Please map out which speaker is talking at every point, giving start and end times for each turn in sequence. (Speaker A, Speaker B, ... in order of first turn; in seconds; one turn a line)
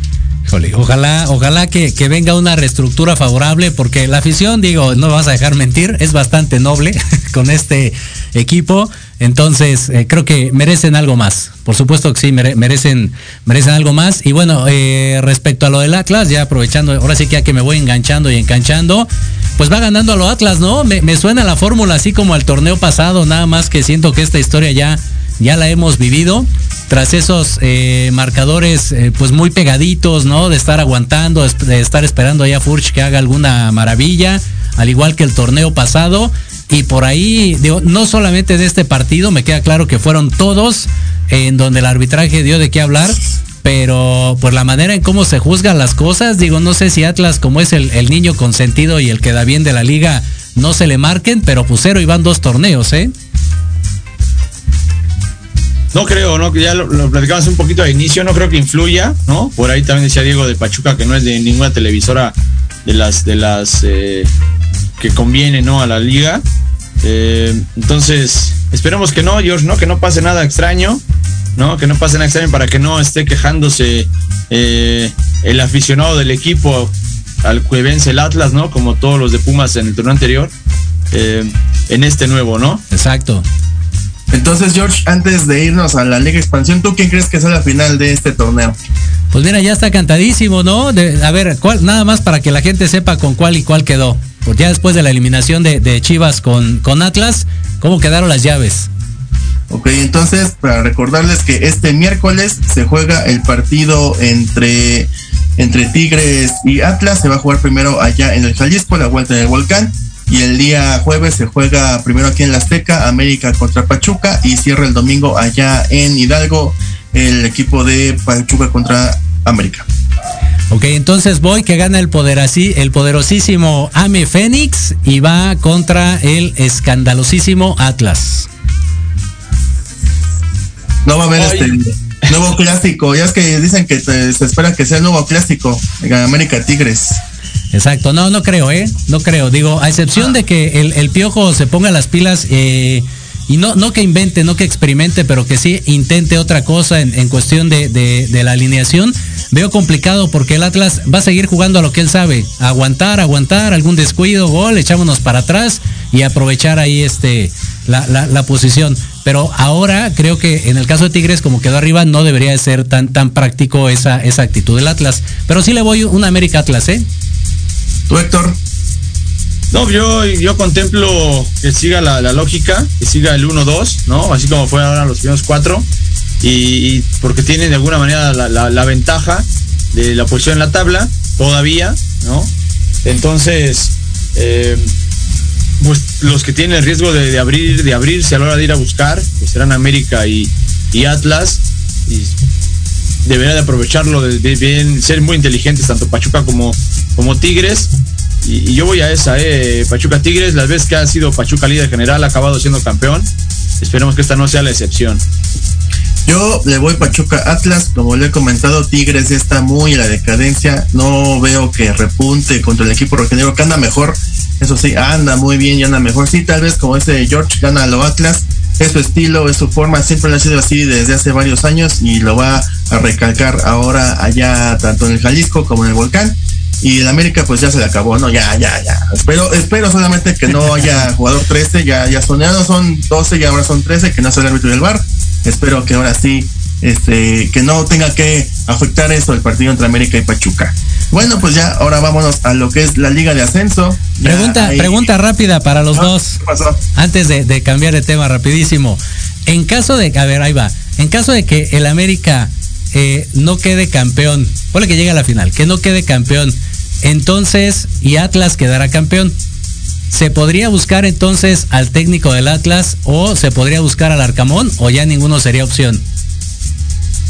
Speaker A: 0.5-53.1
Speaker B: 55.9-64.3
Speaker B: 65.0-66.4
Speaker B: 67.0-71.0
Speaker B: 71.6-80.5
Speaker B: 81.1-82.8
Speaker A: 82.9-83.5
Speaker C: 84.3-88.8
Speaker A: 89.3-98.9
Speaker C: 99.7-119.9
Speaker A: 120.7-128.5
Speaker C: 131.1-137.2
Speaker B: 131.4-131.8
Speaker A: 137.7-167.0
Speaker C: 168.1-168.6
Speaker B: 169.7-175.9
Speaker B: 176.4-182.5
Speaker B: 183.0-184.9
Speaker B: 185.8-192.4
Speaker B: 193.2-197.9
Speaker B: 198.4-205.2
Speaker C: 206.2-245.1
Speaker A: 244.2-246.3
Speaker C: 245.9-246.8
Speaker A: 247.0-256.5
Speaker A: 257.1-259.3
Speaker A: 260.1-266.0